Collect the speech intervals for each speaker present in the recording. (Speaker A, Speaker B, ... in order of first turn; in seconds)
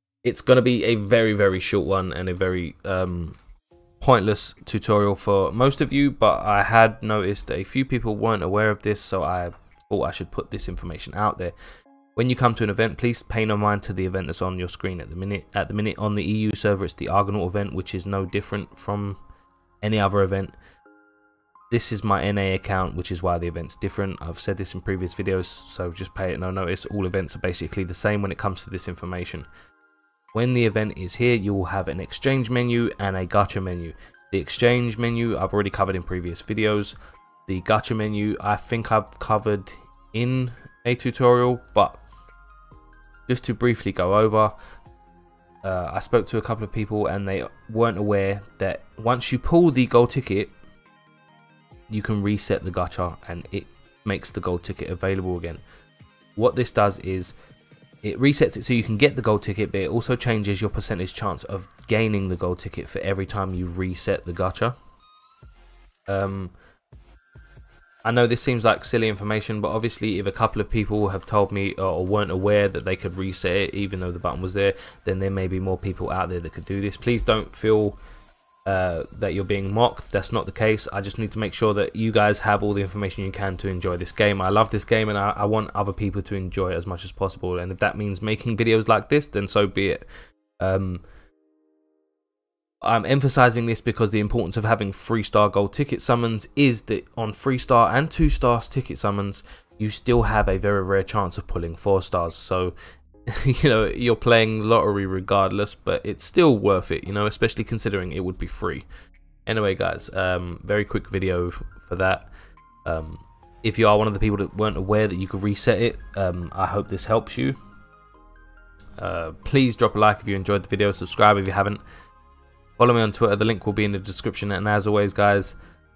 Speaker A: 0.2-3.4, 4.0-11.6, 12.2-19.2, 19.8-20.6, 21.7-29.5, 30.3-37.0, 37.5-42.0, 43.3-44.5, 45.6-50.5, 51.9-55.6, 56.4-57.4, 58.0-64.8, 66.1-66.5, 68.0-78.0, 78.7-90.0, 90.6-91.0, 92.8-102.8, 103.3-108.9, 109.5-112.3, 112.8-117.6, 119.0-121.8, 122.8-125.6